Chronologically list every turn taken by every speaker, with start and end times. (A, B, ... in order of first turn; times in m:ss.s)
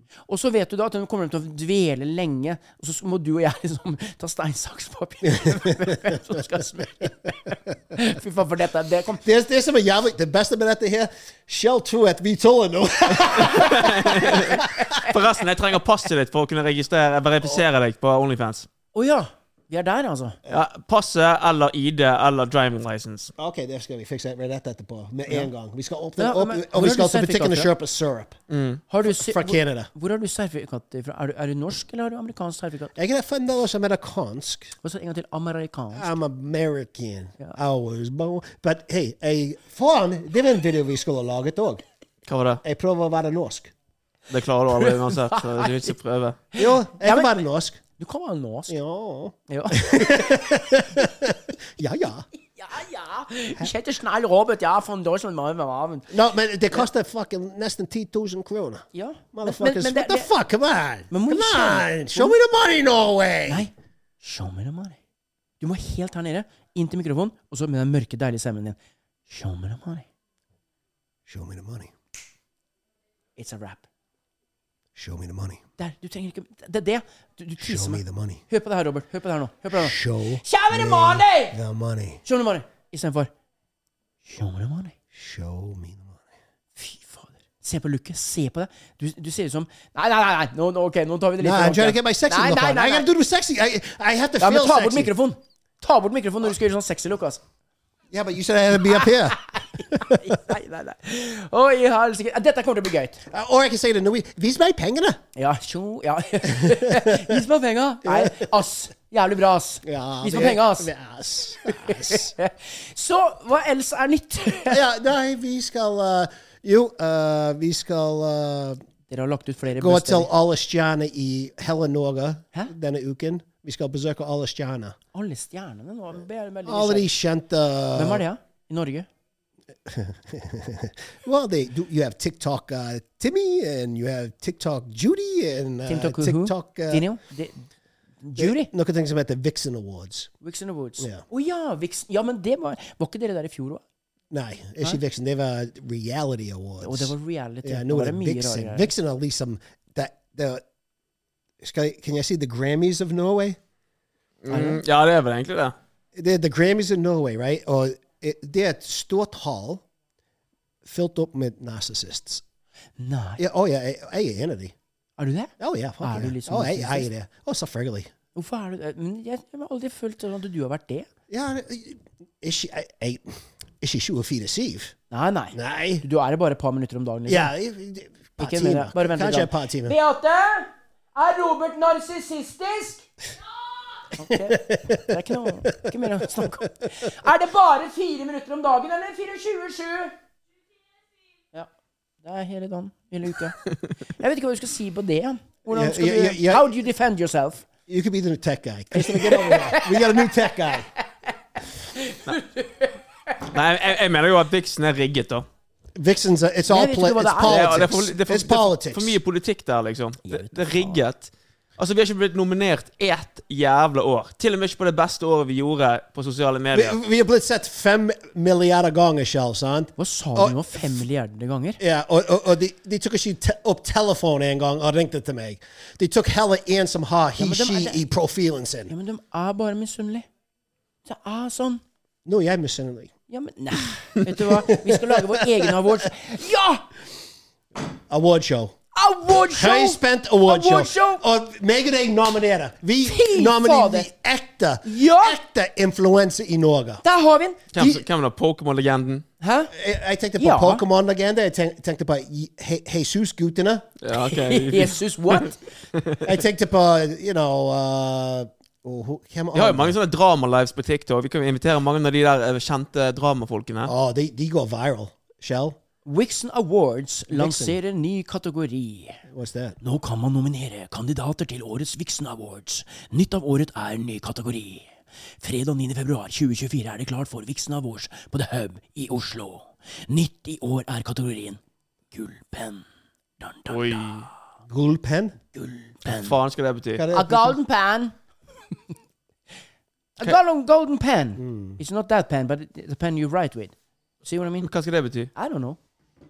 0:00.3-0:09.2 A
0:05.2-0:06.2 B
0:09.2-0:14.9 B
0:13.5-0:18.7 C
0:18.9-0:20.4 A
0:20.5-0:23.3 C
0:23.4-0:28.4 B
0:26.2-0:27.7 A
0:28.5-0:28.8 C
0:28.9-0:32.9 A
0:29.0-0:29.9 B
0:33.0-0:34.8 B
0:34.8-0:36.1 A
0:35.9-0:41.8 B
0:42.3-0:42.6 C
0:42.6-0:43.7 B
0:44.3-0:46.4 C
0:44.8-0:46.0 A
0:46.5-0:47.4 A
0:46.6-0:47.8 B
0:48.0-0:48.8 A
0:48.7-0:52.3 B
0:49.5-0:50.8 A
0:52.6-0:56.1 A
0:56.1-1:03.7 B
0:58.9-1:00.3 A
1:01.1-1:02.4 A
1:03.5-1:05.0 A
1:05.6-1:08.8 A
1:09.3-1:10.1 A
1:11.3-1:11.9 B
1:13.4-1:13.9 A
1:15.0-1:15.6 B
1:15.8-1:21.6 A
1:17.6-1:18.4 B
1:19.7-1:22.2 B
1:22.2-1:23.3 A
1:24.3-1:25.0 A
1:25.1-1:26.2 B
1:26.8-1:33.1 A
1:31.4-1:35.1 B
1:34.4-1:37.4 A
1:38.1-1:39.4 B
1:39.5-1:43.2 A
1:39.9-1:40.2 B
1:43.3-1:45.2 B
1:45.4-1:50.9 A
1:46.5-1:47.4 B
1:48.0-1:48.5 B
1:49.8-1:52.3 B
1:51.7-1:54.8 A
1:54.7-1:58.8 B
1:59.1-2:00.3 A
1:59.7-2:05.0 B
2:05.1-2:07.1 A
2:06.7-2:08.2 B
2:08.0-2:09.1 A
2:09.9-2:17.1 B
2:15.9-2:17.6 A
2:18.2-2:18.7 A
2:18.4-2:20.3 B
2:20.4-2:23.8 A
2:21.0-2:21.2 B
2:24.3-2:27.1 B
2:26.8-2:28.9 A
2:27.6-2:30.6 B
2:31.6-2:33.6 B
2:34.4-2:35.7 C
2:34.5-2:34.8 A
2:36.2-2:39.8 B
2:40.8-2:42.4 B
2:43.0-2:43.4 A
2:43.4-2:44.8 B
2:45.2-2:47.1 A
2:45.6-2:48.1 B
2:48.4-2:51.1 A
2:51.3-2:55.0 B
2:55.1-2:57.5 A
2:55.5-2:56.0 B
2:57.3-3:00.0 B
2:58.4-3:03.1 A
3:04.1-3:10.2 A
3:04.3-3:06.7 B
3:12.2-3:13.6 A
3:14.2-3:17.7 A
3:15.7-3:16.7 B
3:17.9-3:20.9 B
3:18.9-3:20.2 A
3:22.0-3:22.9 A
3:23.5-3:25.5 C
3:26.0-3:29.2 B
3:26.7-3:27.9 A
3:27.4-3:37.0 C
3:30.2-3:31.0 A
3:36.7-3:41.0 B
3:40.0-3:41.8 A
3:41.8-3:48.9 B
3:47.4-3:48.0 A
3:48.9-3:50.3 A
3:51.1-3:51.8 A
3:52.2-3:53.1 B
3:53.3-3:56.9 A
3:54.4-3:56.0 B
3:58.1-3:58.8 B
3:59.0-4:01.2 A
3:59.4-4:07.0 B
4:03.0-4:04.1 A
4:04.8-4:05.4 A
4:07.0-4:07.6 A
4:07.7-4:09.2 C
4:07.8-4:08.0 B
4:09.4-4:09.7 A
4:09.7-4:13.9 B
4:10.4-4:10.8 A
4:14.0-4:15.4 C
4:14.1-4:15.6 A
4:16.2-4:20.0 B
4:19.5-4:23.9 C
4:23.8-4:25.8 B
4:26.0-4:29.2 A
4:27.3-4:27.8 B
4:29.3-4:29.8 B
4:29.8-4:41.6 A
4:42.1-4:42.8 A
4:43.4-4:44.3 A
4:43.7-4:44.3 C
4:44.7-4:45.4 B
4:45.5-4:46.4 A
4:46.1-4:47.0 C
4:47.0-4:47.6 B
4:47.1-4:48.1 A
4:50.2-4:54.7 A
4:51.4-4:51.8 B
4:54.6-4:55.3 C
4:55.4-4:55.8 A